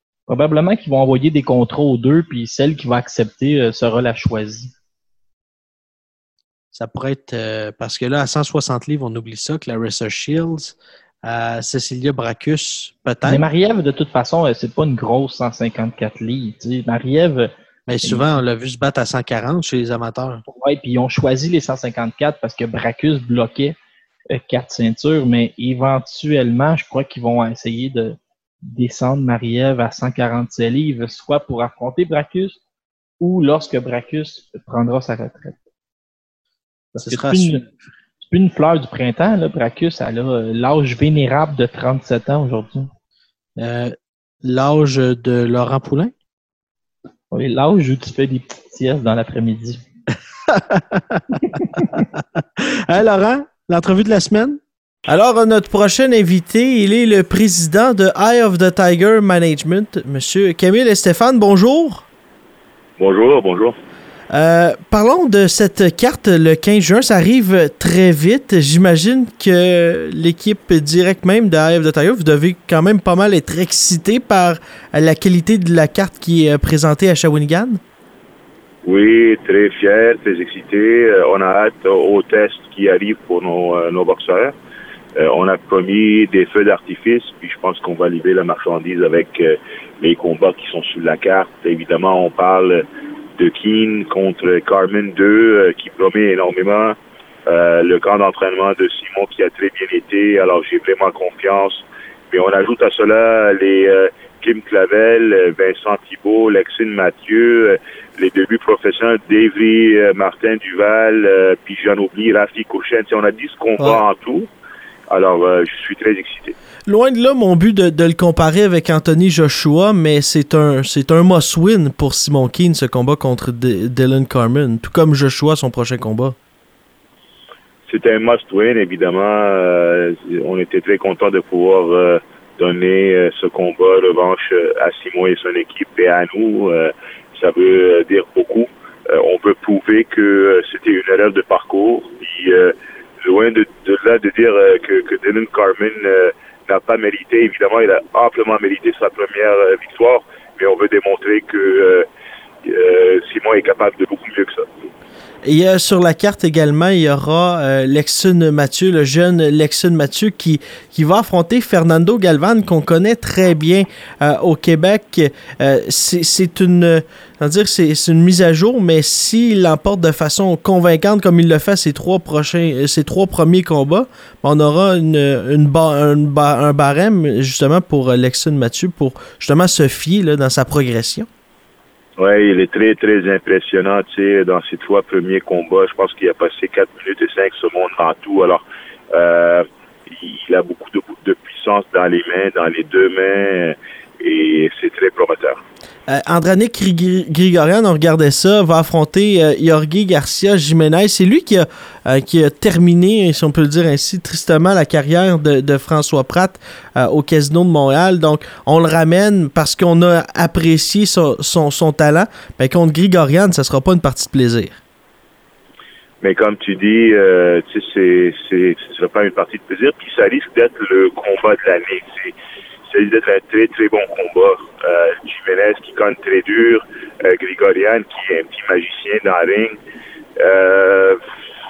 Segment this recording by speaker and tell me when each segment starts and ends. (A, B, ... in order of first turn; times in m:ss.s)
0:00.3-0:04.7 A
0:06.7-0:13.4 B
0:13.3-0:17.5 A
0:17.9-0:20.4 B
0:18.0-0:18.3 A
0:20.5-0:23.8 A
0:24.3-0:32.6 A
0:33.2-0:35.6 A
0:36.9-0:37.6 A
0:37.0-0:37.7 B
0:38.2-0:42.9 A
0:43.6-0:46.1 B
0:47.3-0:49.8 A
0:50.5-1:02.1 B
1:03.0-1:03.8 C
1:04.3-1:17.8 B
1:18.8-1:24.6 C
1:25.2-1:32.8 C
1:33.4-1:54.5 C
1:55.1-1:56.6 C
1:56.9-2:06.4 B
2:07.9-2:32.1 C
2:32.6-2:34.7 C
2:35.4-3:01.3 B
3:02.2-3:15.6 C
3:16.1-3:34.8 B
3:36.2-3:42.3 C
3:42.9-3:49.8 C
3:50.4-3:51.2 C